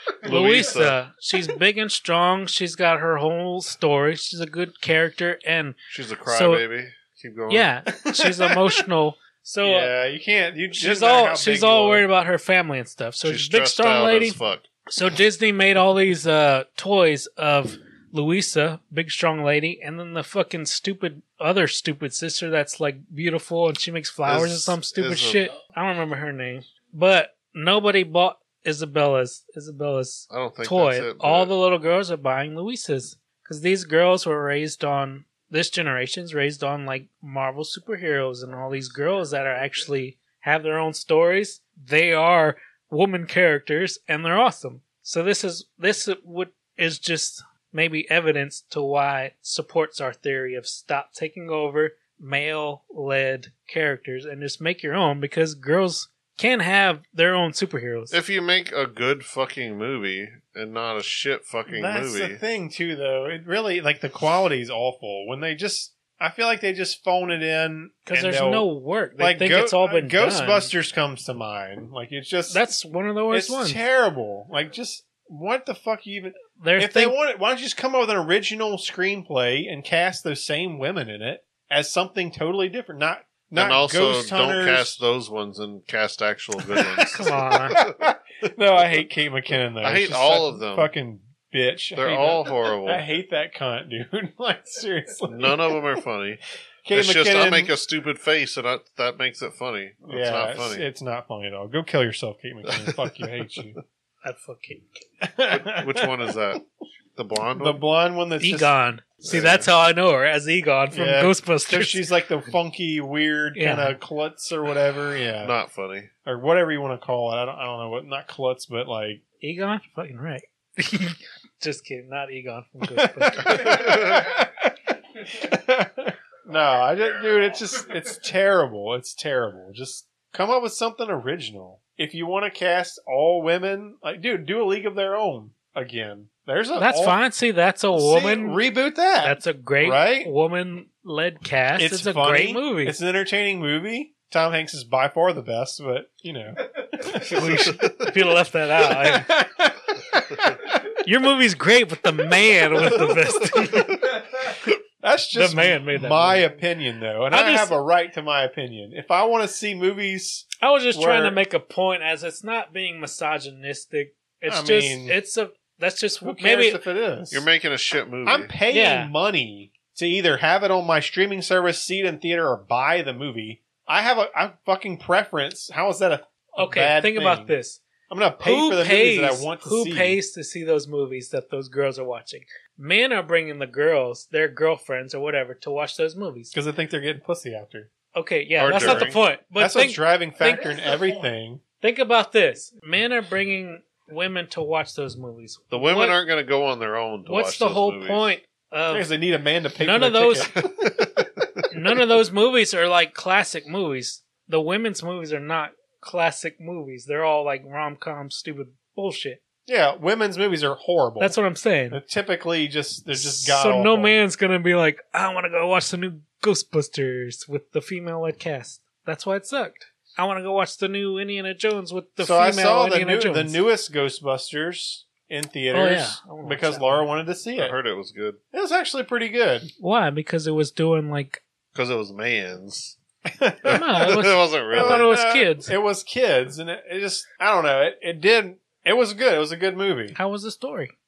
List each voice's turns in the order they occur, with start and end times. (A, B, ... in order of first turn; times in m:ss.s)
0:00.2-0:01.0 A
0:00.2-0:06.6 B
0:05.9-0:07.7 A
0:07.5-0:09.9 B
0:08.0-0:08.8 C
0:09.6-0:12.1 C
0:10.8-0:14.4 B
0:13.2-0:14.7 A
0:14.9-0:58.2 B
0:24.3-0:25.5 A
0:30.3-0:31.5 A
0:58.1-1:02.4 A
1:01.7-1:12.6 C
1:08.1-1:10.7 B
1:12.5-1:13.8 B
1:13.3-1:25.0 C
1:16.6-1:17.2 B
1:23.5-1:27.9 A
1:26.7-1:27.1 C
1:27.1-1:27.8 B
1:27.7-1:35.8 C
1:29.8-1:30.9 A
1:32.0-1:33.0 A
1:35.3-1:36.4 A
1:36.8-1:37.8 C
1:36.9-1:40.9 A
1:40.1-1:43.8 C
1:42.7-1:43.0 A
1:44.2-1:45.0 B
1:45.2-1:46.4 C
1:45.5-1:46.6 A
1:47.2-1:47.8 A
1:47.6-1:48.7 C
1:48.4-1:52.1 B
1:49.2-1:49.7 A
1:50.9-1:55.6 C
1:53.6-1:54.0 B
1:55.4-1:56.1 A
1:56.2-1:59.2 C
1:59.4-2:03.8 B
2:02.8-2:17.2 C
2:03.5-2:04.3 A
2:16.8-2:18.6 B
2:17.9-2:20.3 C
2:19.2-2:23.0 B
2:21.8-2:27.8 C
2:27.2-2:29.3 B
2:27.7-2:27.9 A
2:28.9-2:30.8 C
2:31.0-2:34.0 B
2:32.8-2:33.1 C
2:34.0-2:41.4 C
2:35.3-2:36.5 B
2:37.3-2:37.8 B
2:40.6-2:46.8 B
2:44.5-2:45.2 C
2:46.2-2:47.4 C
2:47.3-2:48.5 A
2:48.2-2:57.5 C
2:48.7-2:49.1 B
2:56.6-2:57.8 B
2:58.1-3:00.2 C
2:58.4-3:06.6 B
3:06.5-3:07.9 C
3:08.1-3:11.2 B
3:08.6-3:09.2 A
3:08.7-3:11.6 C
3:11.8-3:16.2 B
3:15.7-3:18.3 A
3:17.3-3:19.1 B
3:18.9-3:21.2 C
3:19.8-3:20.5 B
3:20.8-3:21.3 A
3:21.7-3:29.4 B
3:29.7-3:31.4 C
3:31.2-3:32.0 B
3:31.9-3:34.2 C
3:33.1-3:43.6 B
3:42.2-3:47.8 C
3:45.7-3:47.1 B
3:47.6-3:48.4 A
3:48.5-3:49.7 C
3:49.8-3:51.4 B
3:51.7-3:53.0 A
3:53.3-3:53.8 C
3:53.6-3:55.7 B
3:53.7-3:55.1 A
3:54.7-4:00.2 C
4:00.2-4:00.9 B